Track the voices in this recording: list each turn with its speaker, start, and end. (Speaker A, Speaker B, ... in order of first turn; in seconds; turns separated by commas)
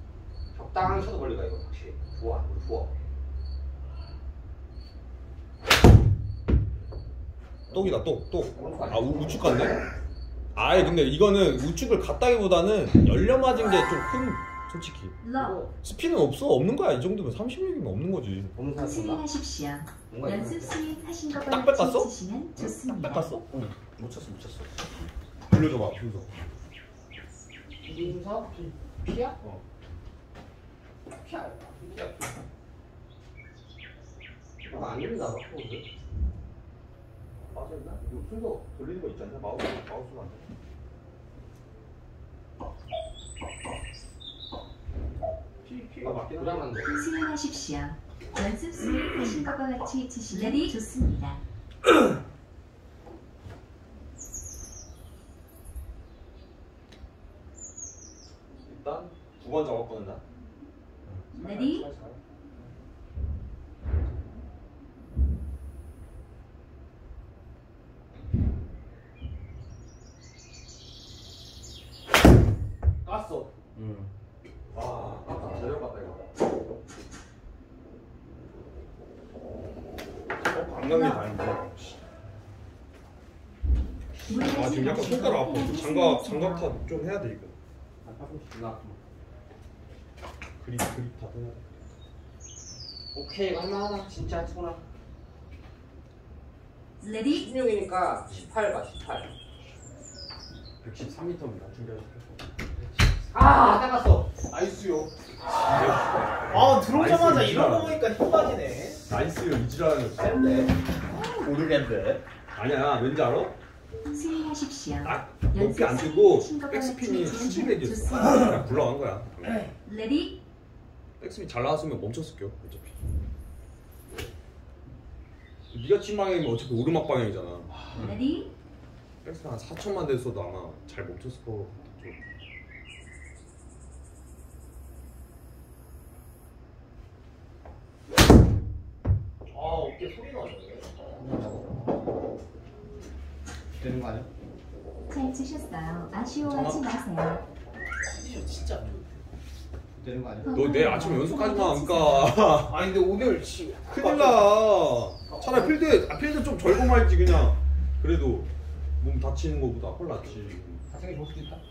Speaker A: 0.5-2.9, Speaker B: 7.7-9.8, Speaker A: 8.5-9.4, Speaker B: 10.6-15.2, Speaker C: 15.2-15.6, Speaker D: 15.4-15.7, Speaker B: 15.8-18.5, Speaker A: 18.5-19.2, Speaker C: 18.8-23.3, Speaker A: 20.1-20.8, Speaker B: 21.5-22.1, Speaker B: 22.8-23.5, Speaker A: 23.5-24.7, Speaker B: 25.5-26.3, Speaker A: 27.8-29.4, Speaker A: 31.1-32.3, Speaker A: 34.6-35.8, Speaker B: 37.5-40.4, Speaker A: 45.6-47.0, Speaker B: 46.0-46.7, Speaker C: 46.9-51.4, Speaker A: 50.4-50.7, Speaker B: 58.6-60.2, Speaker B: 61.3-62.2, Speaker C: 61.4-61.9, Speaker B: 73.1-73.5, Speaker A: 73.7-74.1, Speaker B: 74.7-76.2, Speaker B: 80.4-82.1, Speaker C: 80.9-81.2, Speaker C: 84.3-86.7, Speaker B: 84.3-87.5, Speaker A: 88.0-89.0, Speaker B: 90.6-91.6, Speaker A: 93.1-94.8, Speaker A: 97.3-99.3, Speaker B: 100.8-102.4, Speaker A: 103.3-104.3, Speaker D: 104.5-105.1, Speaker B: 105.6-108.0, Speaker D: 106.5-109.0, Speaker B: 109.1-110.3, Speaker A: 110.2-112.2, Speaker B: 112.5-113.5, Speaker C: 114.1-118.6, Speaker B: 115.0-119.5, Speaker C: 119.8-120.4, Speaker B: 121.2-123.0, Speaker B: 125.7-127.7, Speaker C: 128.0-128.5, Speaker B: 129.2-132.2, Speaker D: 139.5-140.9, Speaker A: 141.2-141.9, Speaker A: 143.8-144.3, Speaker C: 145.1-147.4, Speaker B: 146.4-146.8, Speaker D: 148.0-149.3, Speaker A: 150.0-150.5, Speaker C: 150.4-152.4, Speaker B: 150.5-152.8, Speaker D: 152.6-154.5, Speaker B: 153.9-160.8, Speaker D: 155.3-155.7, Speaker A: 160.9-161.6